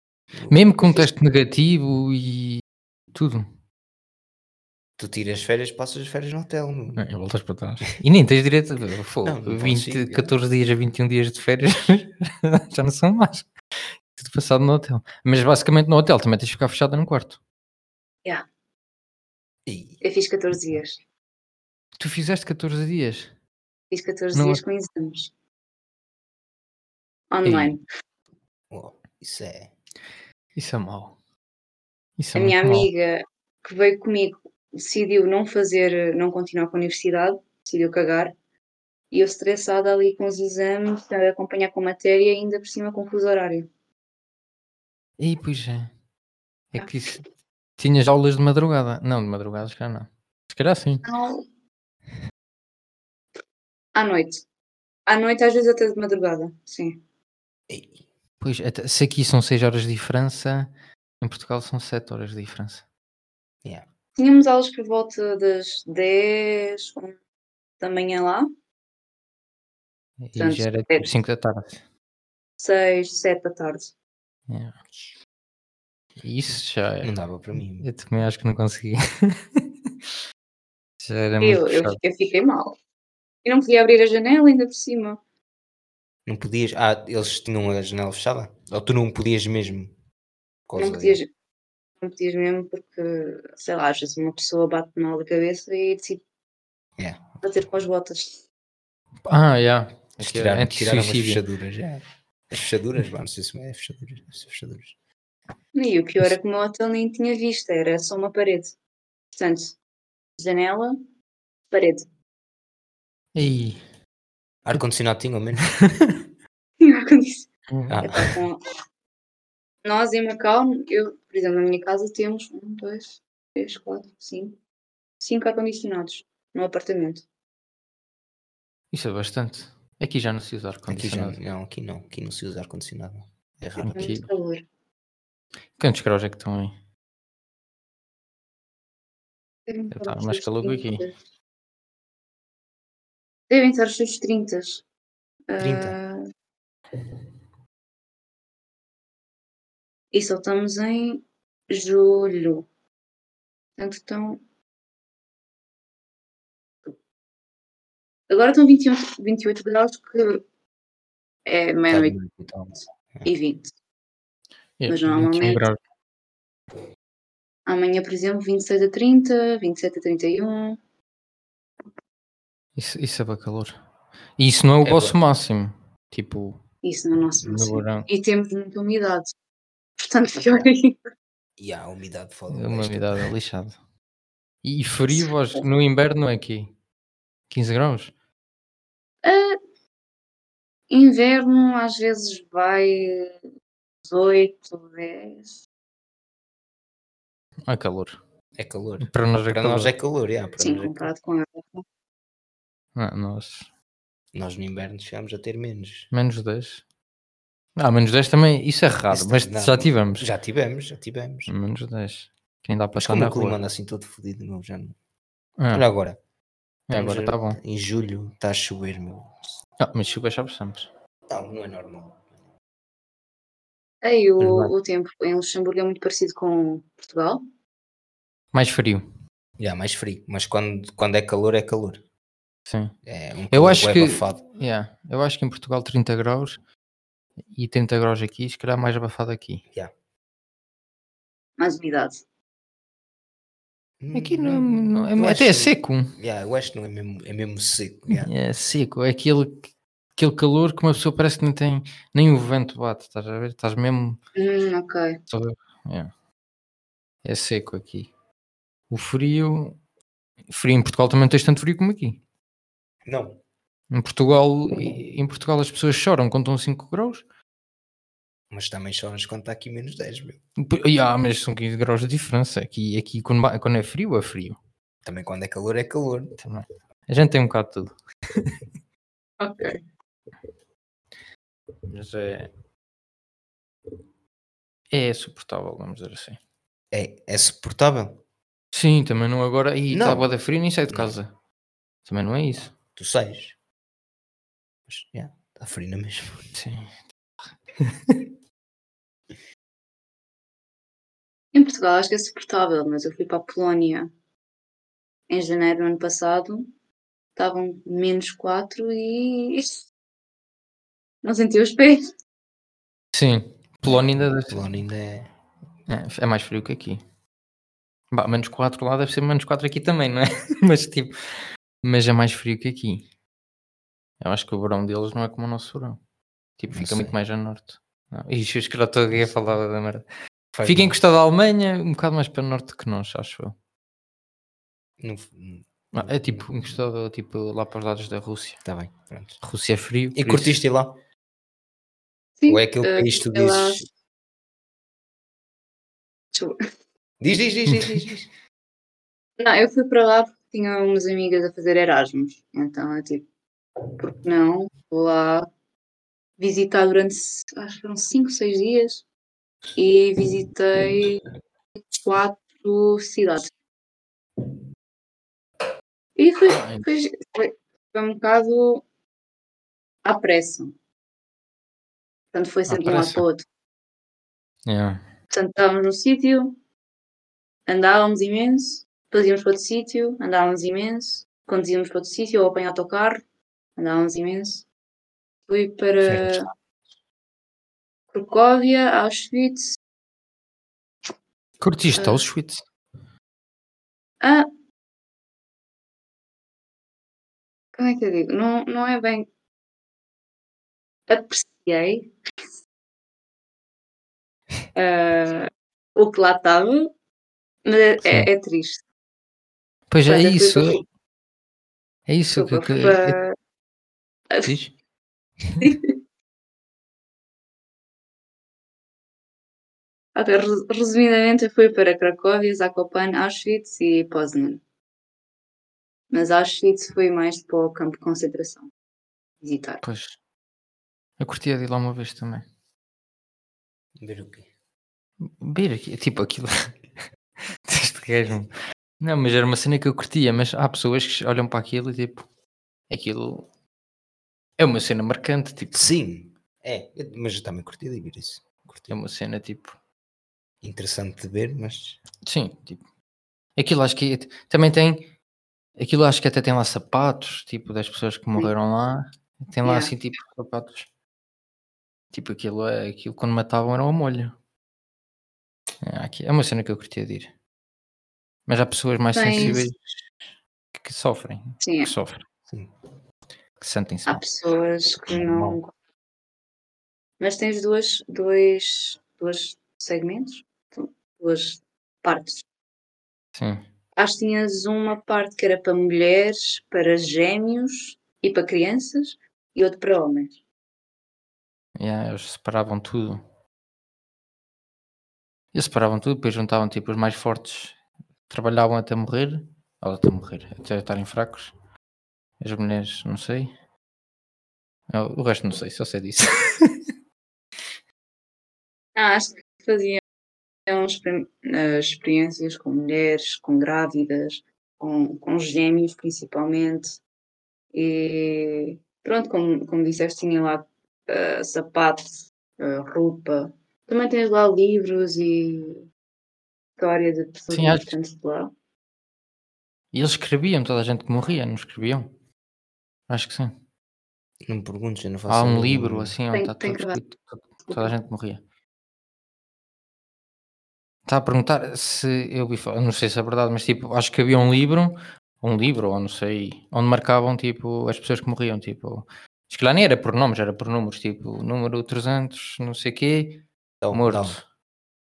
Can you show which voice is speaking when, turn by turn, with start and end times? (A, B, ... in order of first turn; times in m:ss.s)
0:00.3-0:01.1 A
0:00.5-0:02.6 B
0:03.1-0:03.5 B
0:05.0-0:07.0 A
0:07.0-0:13.5 B
0:09.2-0:10.3 A
0:14.2-0:17.4 B
0:19.7-0:20.0 A
0:20.0-0:21.0 C
0:22.0-0:23.3 B
0:23.9-0:25.3 C
0:24.3-0:24.6 B
0:27.3-0:27.8 C
0:27.4-0:27.7 B
0:28.7-0:29.7 A
0:30.6-0:31.2 B
0:32.2-0:32.9 B
0:32.3-0:38.3 C
0:39.1-0:43.7 C
0:45.2-0:45.9 B
0:46.7-0:47.2 B
0:47.8-0:51.0 B
0:51.0-0:51.4 C
0:53.9-0:54.4 C
0:55.0-0:57.0 C
0:57.7-0:58.0 A
0:58.4-1:02.8 B
1:04.2-1:07.1 C
1:07.8-1:08.5 C
1:10.2-1:11.8 B
1:10.4-1:11.1 C
1:12.6-1:13.9 C
1:14.5-1:14.8 B
1:16.2-1:17.1 B
1:17.0-1:17.9 A
1:17.7-1:19.6 B
1:21.0-1:22.0 B
1:21.4-1:22.7 C
1:23.4-1:25.2 C
1:26.3-1:29.9 A
1:30.7-1:31.2 A
1:30.8-1:31.3 C
1:32.0-1:36.2 C
1:37.0-1:37.2 A
1:37.4-1:38.4 C
1:39.3-1:41.4 B
1:40.2-1:45.0 A
1:45.7-1:48.7 C
1:49.3-1:49.7 C
1:50.4-1:51.0 C
1:51.7-1:52.0 C
1:53.3-1:53.8 B
1:54.6-1:55.7 A
1:55.8-1:56.1 B
1:56.8-1:57.5 C
1:57.7-1:58.0 B
1:57.9-1:58.4 A
1:58.0-1:58.6 C
1:59.8-2:04.6 C
2:05.2-2:07.2 C
2:08.9-2:11.4 B
2:10.9-2:14.1 A
2:13.8-2:14.3 B
2:13.9-2:14.6 C
2:15.8-2:16.7 B
2:19.7-2:21.1 C
2:19.9-2:21.1 B
2:23.5-2:24.8 C
2:25.5-2:26.2 C
2:25.6-2:26.0 A
2:30.1-2:32.7 C
2:33.8-2:34.4 C
2:38.3-2:40.4 C
2:41.4-2:42.1 C
2:41.9-2:43.3 A
2:43.2-2:43.7 C
2:44.8-2:45.8 B
2:44.9-2:45.6 C
2:47.7-2:50.8 C
2:52.8-2:53.8 B
2:54.4-2:56.6 B
2:54.8-2:55.2 A
2:56.8-2:59.3 C
2:57.4-2:58.1 B
3:00.0-3:01.0 C
3:01.6-3:03.3 A
3:02.5-3:03.8 B
3:04.6-3:06.7 B
3:05.1-3:05.6 C
3:07.5-3:08.1 B
3:09.2-3:09.6 C
3:10.9-3:13.4 C
3:14.0-3:15.6 C
3:17.7-3:18.2 B
3:18.6-3:21.1 A
3:19.0-3:19.9 B
3:20.6-3:21.8 C
3:23.0-3:23.7 B
3:24.3-3:26.1 A
3:26.1-3:26.8 B
3:27.8-3:30.3 B
3:29.1-3:31.5 A
3:31.5-3:33.6 B
3:33.0-3:35.0 A
3:35.6-3:35.8 B
3:35.7-3:36.2 A
3:36.9-3:37.6 B
3:36.9-3:39.6 A
3:39.8-3:40.9 B
3:41.3-3:42.3 A
3:44.0-3:47.4 C
3:44.4-3:44.7 A
3:48.5-3:49.0 B
3:49.6-3:52.0 A
3:52.7-3:52.9 B
3:53.0-3:54.4 A
3:53.5-3:56.6 B
3:57.5-3:59.6 B
4:01.6-4:02.2 C
4:04.0-4:08.3 A
4:04.1-4:06.1 B
4:08.1-4:14.2 B
4:14.4-4:15.2 C
4:15.3-4:16.1 B
4:17.2-4:18.1 B
4:18.9-4:19.8 B
4:20.5-4:22.2 B
4:23.0-4:23.4 A
4:23.9-4:27.2 B
4:28.5-4:30.4 A
4:30.6-4:34.6 B
4:35.0-4:36.3 A
4:36.4-4:38.6 B
4:39.4-4:39.8 C
4:41.9-4:42.5 B
4:44.9-4:46.4 B
4:46.9-4:48.2 A
4:48.7-4:51.3 B
4:49.9-4:50.3 A
4:50.9-4:51.1 A
4:52.0-4:52.7 B
4:52.9-4:53.6 A
4:54.9-4:56.5 A
4:56.6-4:57.0 B
4:57.8-4:58.2 B
5:01.5-5:04.1 C
5:05.3-5:06.7 C
5:07.4-5:09.8 C
5:11.2-5:12.1 C
5:13.1-5:14.6 B
5:13.9-5:15.3 A
5:15.9-5:17.0 B
5:18.1-5:21.1 B
5:21.8-5:23.0 B
5:24.2-5:26.0 B
5:26.6-5:30.0 B
5:26.7-5:27.1 A
5:30.6-5:31.0 A
5:30.6-5:33.6 B
5:35.0-5:36.5 A
5:35.9-5:38.6 B
5:38.6-5:39.4 A
5:39.4-5:40.6 B
5:40.1-5:41.0 A
5:42.4-5:43.8 C
5:42.5-5:43.8 A
5:46.3-5:46.6 C
5:47.2-5:48.3 A
5:49.4-5:53.2 C
5:54.0-5:55.5 C
5:56.4-5:59.0 C
5:59.7-6:01.2 C
6:01.9-6:03.5 C
6:06.2-6:08.8 C
6:06.5-6:06.9 B
6:10.0-6:10.7 C
6:12.3-6:13.4 C
6:12.7-6:13.2 B
6:14.7-6:15.0 B
6:15.3-6:16.6 C
6:17.7-6:23.2 C
6:23.8-6:24.6 C
6:25.5-6:26.5 C
6:28.1-6:29.8 C
6:31.6-6:32.6 B
6:32.0-6:32.3 C
6:34.2-6:34.5 C
6:37.7-6:39.3 C
6:41.1-6:42.1 C
6:44.7-6:46.9 C
6:47.6-6:48.8 C
6:48.0-6:48.3 B
6:49.9-6:50.8 B
6:50.1-6:50.8 C
6:52.1-6:53.2 B
6:52.3-6:53.3 C
6:54.4-6:54.7 B
6:55.6-6:56.0 C
7:00.1-7:04.6 C
7:06.1-7:08.7 C
7:09.4-7:09.8 C
7:09.8-7:10.2 B
7:11.2-7:12.4 B
7:14.0-7:14.5 A
7:15.3-7:16.7 B
7:17.6-7:22.3 B
7:22.9-7:23.5 B
7:24.6-7:25.9 B
7:25.7-7:28.9 A
7:28.9-7:29.7 B
7:30.6-7:32.0 A
7:32.2-7:32.8 B
7:33.6-7:35.1 B
7:35.8-7:40.9 B
7:39.6-7:39.9 C
7:42.1-7:44.3 B
7:45.8-7:47.3 B
7:48.5-7:49.8 B
7:49.1-7:49.6 C
7:49.4-7:49.7 A
7:50.7-7:52.2 B
7:51.6-7:51.9 C
7:53.6-7:54.2 B
7:54.1-7:55.7 C
7:55.1-7:55.6 A
7:57.2-8:02.4 C
8:03.3-8:03.6 B
8:04.0-8:10.3 C
8:11.8-8:13.2 B
8:15.5-8:17.8 B
8:18.3-8:21.5 B
8:22.4-8:23.5 B
8:24.9-8:26.8 B
8:29.0-8:30.0 C
8:30.7-8:37.0 C
8:37.7-8:45.8 C
8:46.8-8:48.5 C
8:47.5-8:47.9 B
8:49.9-8:52.1 B
8:53.1-8:53.5 B
8:54.4-8:56.1 A
8:55.3-8:58.4 B
8:56.3-8:57.0 C
9:01.0-9:14.4 B
9:13.8-9:14.4 A